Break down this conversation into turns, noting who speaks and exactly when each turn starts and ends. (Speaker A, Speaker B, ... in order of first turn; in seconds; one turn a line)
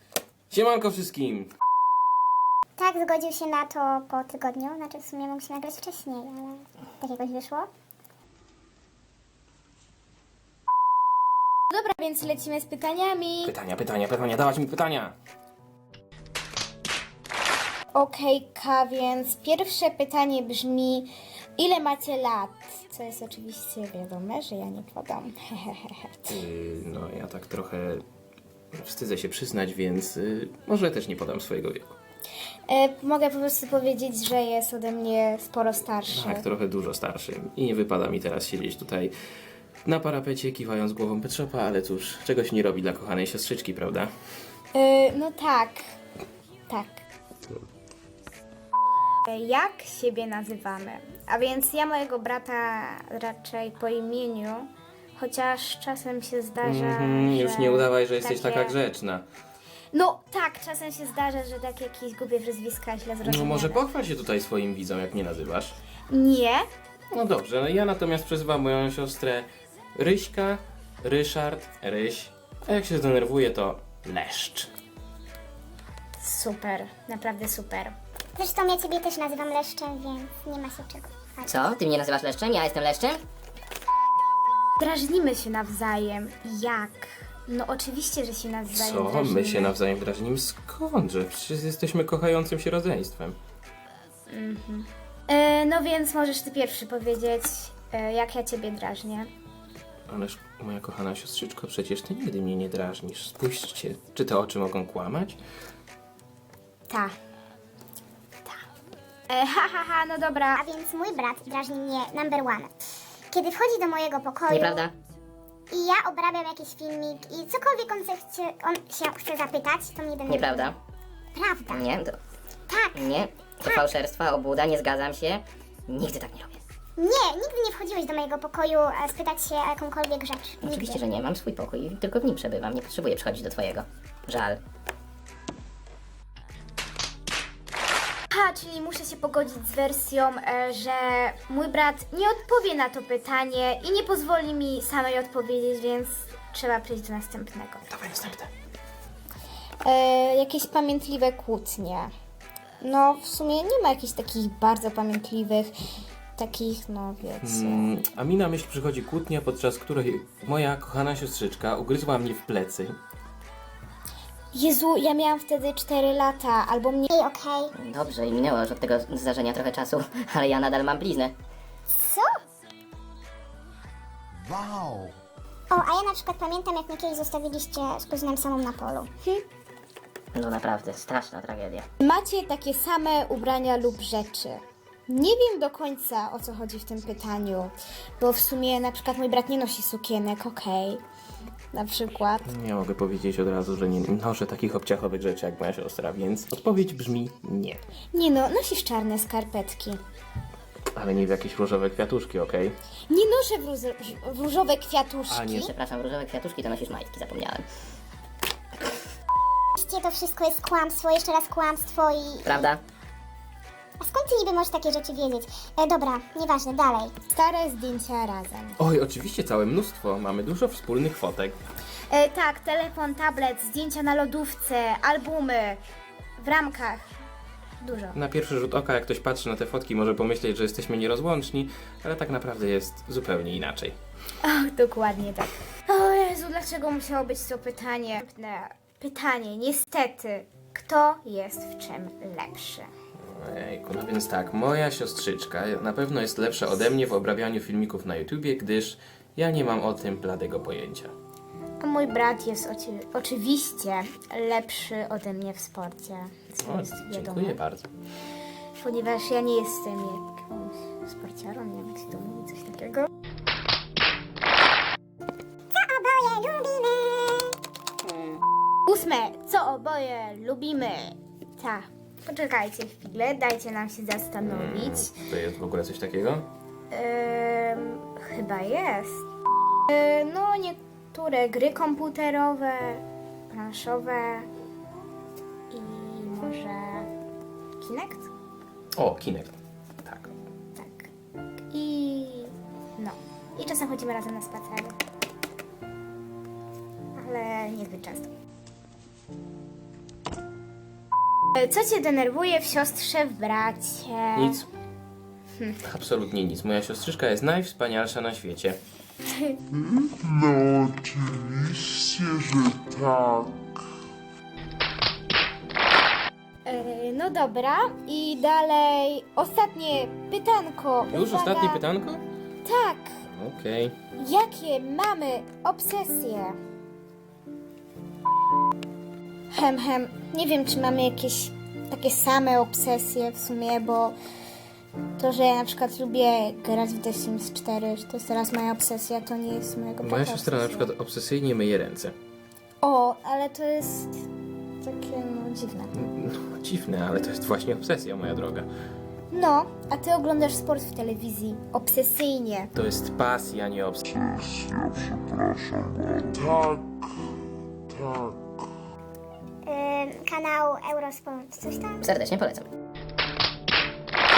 Speaker A: 0.5-1.5
Speaker B: 2.8-7.7
Speaker C: 11.7-13.5
Speaker A: 13.4-15.2
Speaker C: 17.9-26.3
Speaker A: 26.3-28.0
Speaker A: 28.7-31.9
Speaker C: 32.7-36.5
Speaker A: 36.1-39.1
Speaker A: 39.9-44.1
Speaker C: 44.7-45.8
Speaker C: 46.7-47.0
Speaker C: 49.3-58.8
Speaker A: 56.6-59.3
Speaker C: 59.9-63.8
Speaker A: 63.2-65.8
Speaker C: 66.1-66.7
Speaker A: 67.1-74.7
Speaker C: 76.2-78.0
Speaker B: 78.3-81.7
Speaker D: 81.5-83.2
Speaker C: 84.8-89.8
Speaker A: 88.7-93.4
Speaker C: 94.3-99.3
Speaker A: 100.1-105.4
Speaker C: 109.3-110.6
Speaker B: 110.5-112.7
Speaker B: 113.3-114.9
Speaker D: 114.5-114.9
Speaker B: 115.7-120.7
Speaker D: 120.3-120.8
Speaker B: 121.3-121.9
Speaker D: 121.7-122.2
Speaker B: 122.7-123.0
Speaker D: 122.9-126.6
Speaker B: 127.0-131.0
Speaker D: 130.6-134.6
Speaker C: 138.3-147.9
Speaker A: 147.9-148.5
Speaker C: 149.8-152.1
Speaker C: 152.8-155.7
Speaker C: 156.4-157.9
Speaker A: 157.4-162.9
Speaker C: 164.5-167.1
Speaker B: 167.1-167.7
Speaker D: 167.7-171.3
Speaker B: 171.9-172.3
Speaker E: 174.6-175.1
Speaker B: 175.7-179.1
Speaker D: 180.3-181.9
Speaker C: 182.0-191.0
Speaker C: 191.7-192.5
Speaker A: 192.5-197.8
Speaker C: 198.1-200.0
Speaker A: 200.9-202.8
Speaker C: 203.1-205.7
Speaker A: 205.3-205.7
Speaker D: 205.5-207.7
Speaker B: 209.8-212.7
Speaker D: 212.4-212.8
Speaker B: 214.0-217.2
Speaker C: 217.3-218.8
Speaker A: 218.8-221.6
Speaker C: 222.1-225.8
Speaker C: 226.4-227.1
Speaker C: 227.8-228.2
Speaker A: 228.2-234.0
Speaker C: 234.4-242.9
Speaker A: 243.2-251.1
Speaker C: 251.8-257.6
Speaker A: 256.6-257.9
Speaker C: 258.8-263.1
Speaker B: 265.7-267.5
Speaker C: 268.9-275.1
Speaker A: 274.4-276.5
Speaker C: 276.9-279.2
Speaker C: 279.9-284.5
Speaker C: 285.7-287.1
Speaker C: 287.8-288.3
Speaker A: 289.0-290.4
Speaker C: 290.8-291.1
Speaker C: 291.7-295.0
Speaker C: 297.1-298.3
Speaker C: 301.5-304.6
Speaker A: 304.4-304.7
Speaker A: 305.8-308.8
Speaker E: 310.0-313.5
Speaker C: 316.6-321.8
Speaker A: 321.1-322.2
Speaker C: 322.6-323.2
Speaker A: 323.3-323.9
Speaker C: 324.2-326.6
Speaker C: 329.5-334.2
Speaker C: 335.2-340.9
Speaker A: 340.0-342.1
Speaker C: 342.8-344.2
Speaker C: 344.8-345.9
Speaker A: 345.9-348.7
Speaker C: 349.3-352.7
Speaker A: 352.7-354.3
Speaker E: 355.8-356.8
Speaker B: 359.7-362.1
Speaker D: 362.0-362.7